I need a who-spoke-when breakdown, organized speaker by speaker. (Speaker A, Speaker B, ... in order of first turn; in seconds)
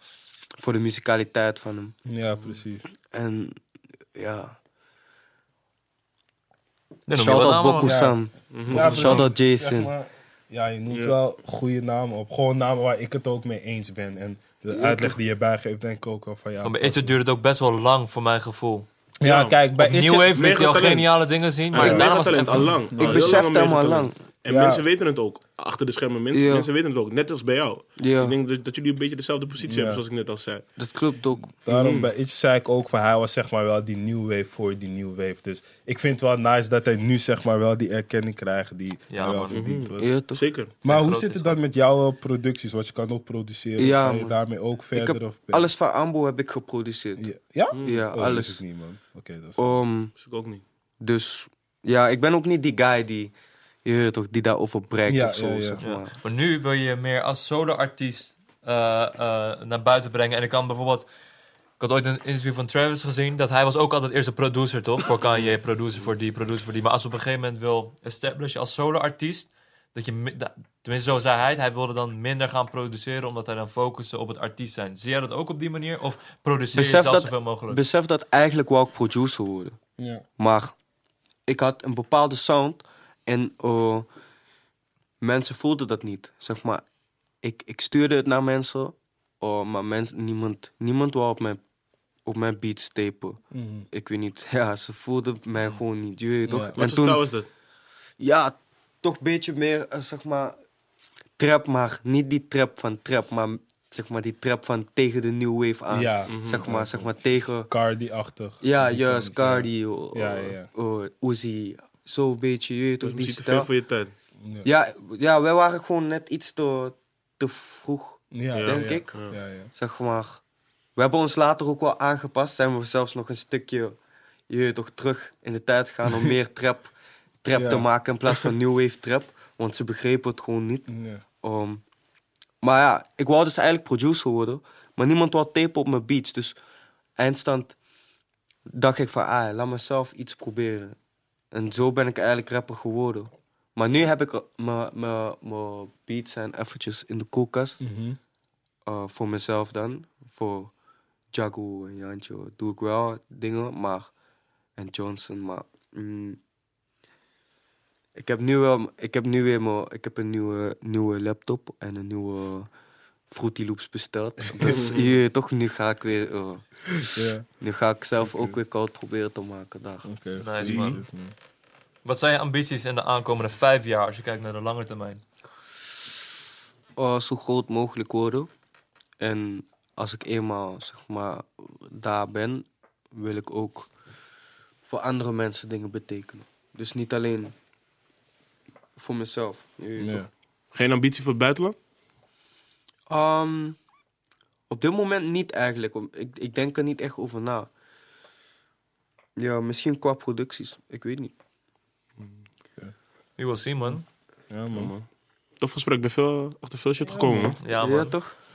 Speaker A: 0.6-2.0, 3.1-3.6, 4.2-4.6, 7.1-9.9, 14.8-15.1, 23.0-24.1, 26.3-26.7, 28.0-28.4, 30.8-31.6, 40.0-40.4, 43.8-44.4, 44.9-47.3, 47.8-48.6, 49.6-50.1, 51.0-53.3, 53.9-56.1, 76.7-79.8, 80.4-80.8, 81.5-84.1, 85.2-86.8, 87.4-91.6, 92.3-97.2, 98.2-100.5, 101.4-107.7, 108.6-113.7, 114.6-119.2, 119.7-120.4, 121.0-124.0, 124.5-126.9, 127.4-130.9, 131.4-131.8, 132.6-136.6, 137.2-137.8, 138.7-140.9, 141.5-147.8, 148.9-150.7, 151.3-154.1, 154.8-156.4, 158.2-162.7, 163.3-167.1, 167.6-170.1, 177.0-178.5, 179.2-183.9, 184.8-187.6, 189.0-190.3, 193.1-193.8, 194.7-197.7, 199.4-201.3, 207.8-208.3
Speaker B: 2.1-2.9, 7.8-17.1, 19.2-20.3, 21.8-22.1, 22.9-23.3, 24.5-24.8, 29.7-30.0, 31.6-40.1, 40.8-45.7, 47.2-49.8, 55.1-55.8, 80.0-80.2, 93.5-93.9, 96.5-96.8, 105.9-107.1, 107.7-110.7, 114.4-114.7, 118.3-119.7, 127.5-128.5, 130.9-131.2, 147.8-148.2, 164.5-164.8, 167.2-167.5, 168.2-168.6, 170.0-171.3, 190.0-190.3, 204.5-204.9, 207.1-207.6
Speaker C: 7.1-8.0, 8.8-9.3, 16.6-18.9, 19.8-22.8, 39.1-39.7, 40.9-41.6, 55.8-61.1, 61.8-77.8, 170.4-171.0, 172.1-175.2, 203.4-204.0, 207.6-208.2
Speaker D: 8.5-9.0, 10.9-11.2, 19.2-19.6, 20.4-21.1, 21.7-30.6, 31.7-32.1, 39.5-40.7, 47.7-48.1, 50.2-50.6, 65.2-65.6, 96.8-97.5, 106.3-106.7, 113.0-114.1, 118.5-119.3, 164.7-165.1, 170.6-170.9, 190.7-191.8, 204.7-205.1, 205.6-207.6